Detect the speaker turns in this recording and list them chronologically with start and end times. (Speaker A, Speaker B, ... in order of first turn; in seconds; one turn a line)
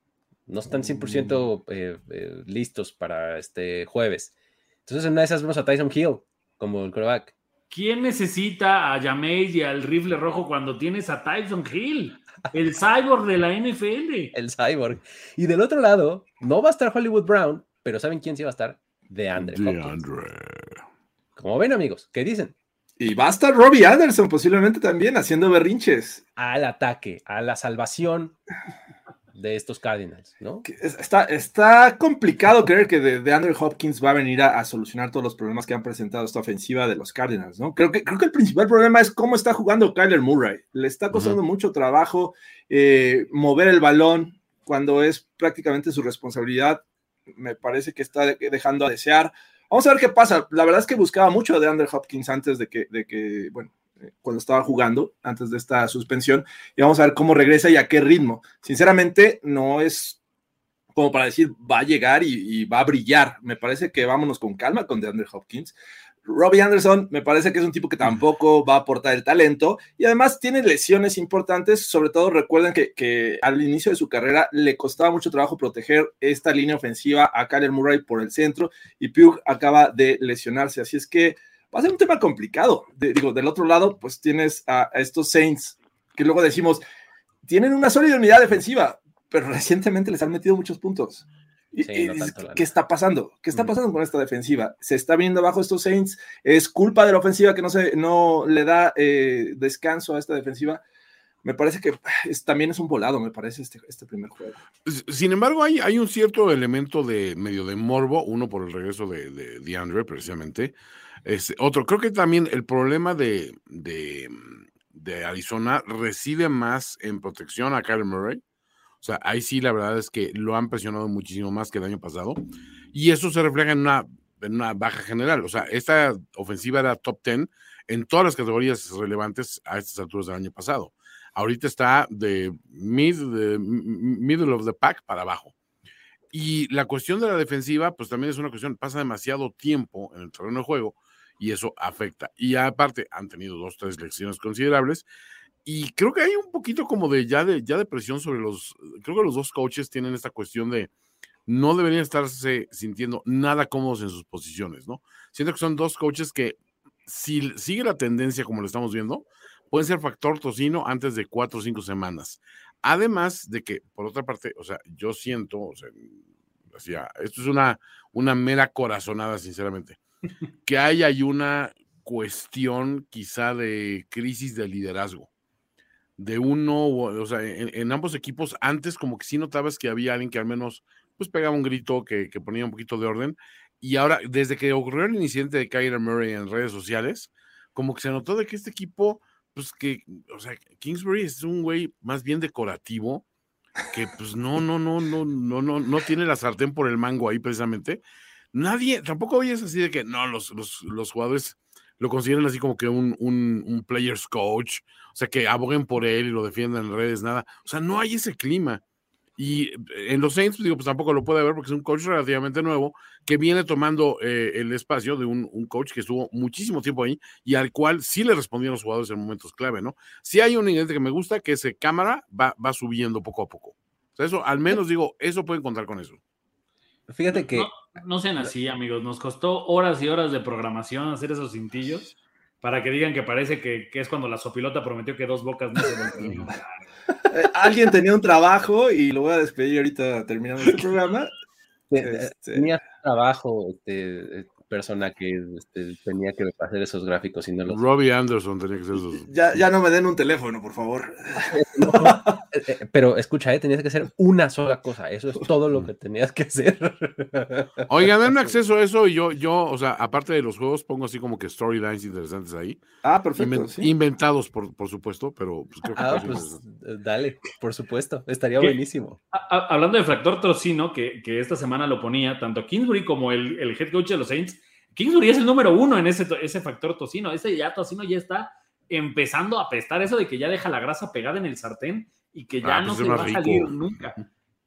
Speaker A: 0.5-4.3
Speaker A: 4.9-7.3
Speaker B: 7.7-14.3
Speaker A: 14.3-20.0
Speaker C: 19.4-20.8
Speaker A: 21.4-22.6
Speaker D: 23.0-26.2
Speaker A: 26.4-28.4
Speaker A: 29.3-30.7
Speaker D: 30.7-60.2
Speaker C: 41.1-41.4
Speaker D: 61.0-65.7
Speaker D: 66.3-86.8
Speaker D: 87.5-100.8
Speaker A: 91.8-92.7
Speaker D: 101.4-104.6
Speaker C: 104.8-118.4
Speaker C: 119.0-122.4
Speaker C: 122.9-135.5
Speaker C: 136.3-145.1
Speaker C: 145.7-150.9
Speaker C: 151.5-166.2
Speaker C: 166.7-170.0
Speaker C: 170.7-175.3
Speaker C: 176.2-193.2
Speaker C: 193.9-198.0
Speaker C: 198.5-208.8
Speaker C: 209.4-226.2
Speaker A: 227.1-227.7
Speaker B: 227.3-232.1
Speaker B: 232.6-236.8
Speaker D: 237.3-241.3
Speaker A: 241.9-247.8
Speaker D: 242.0-242.7
Speaker C: 247.7-249.3
Speaker D: 249.2-252.4
Speaker A: 251.4-258.5
Speaker C: 257.9-262.9
Speaker D: 263.0-263.9
Speaker C: 263.4-266.6
Speaker A: 265.9-269.2
Speaker B: 269.3-284.2
Speaker C: 282.6-283.8